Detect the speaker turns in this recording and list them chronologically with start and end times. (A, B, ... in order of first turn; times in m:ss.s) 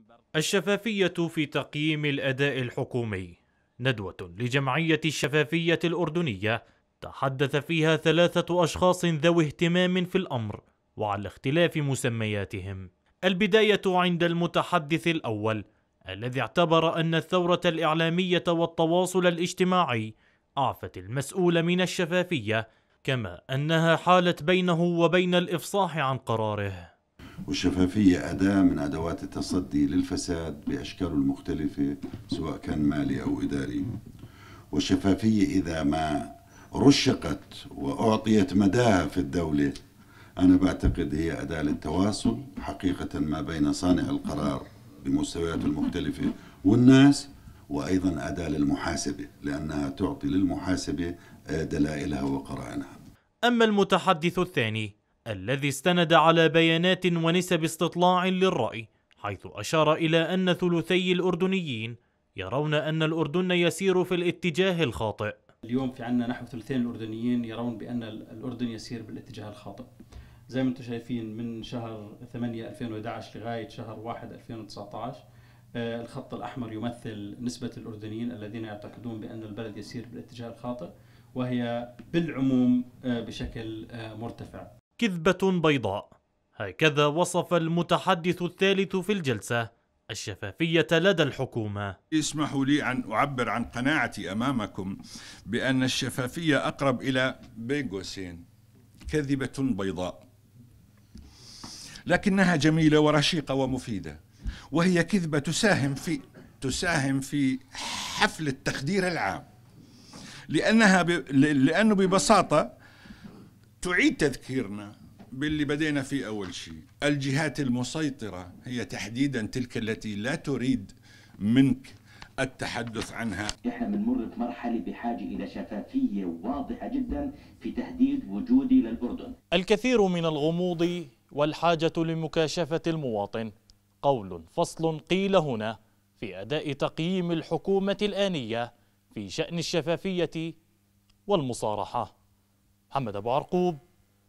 0:00.4-0:26.9 A
0:27.5-0:34.0 B
0:34.7-0:39.7 B
0:40.4-0:53.0 B
0:53.4-1:05.4 A
1:05.7-1:09.9 C
1:10.5-1:15.2 C
1:15.8-1:24.7 C
1:25.0-1:31.9 A
1:32.1-1:35.0 D
1:35.5-1:38.4 D
1:39.1-1:40.2 D
1:42.1-1:44.2 D
1:44.7-1:49.5 D
1:50.5-1:52.7 D
1:53.8-2:03.5 D
2:03.6-2:09.3 E
2:09.6-2:20.5 A
2:21.3-2:22.1 A
2:22.9-2:23.8 A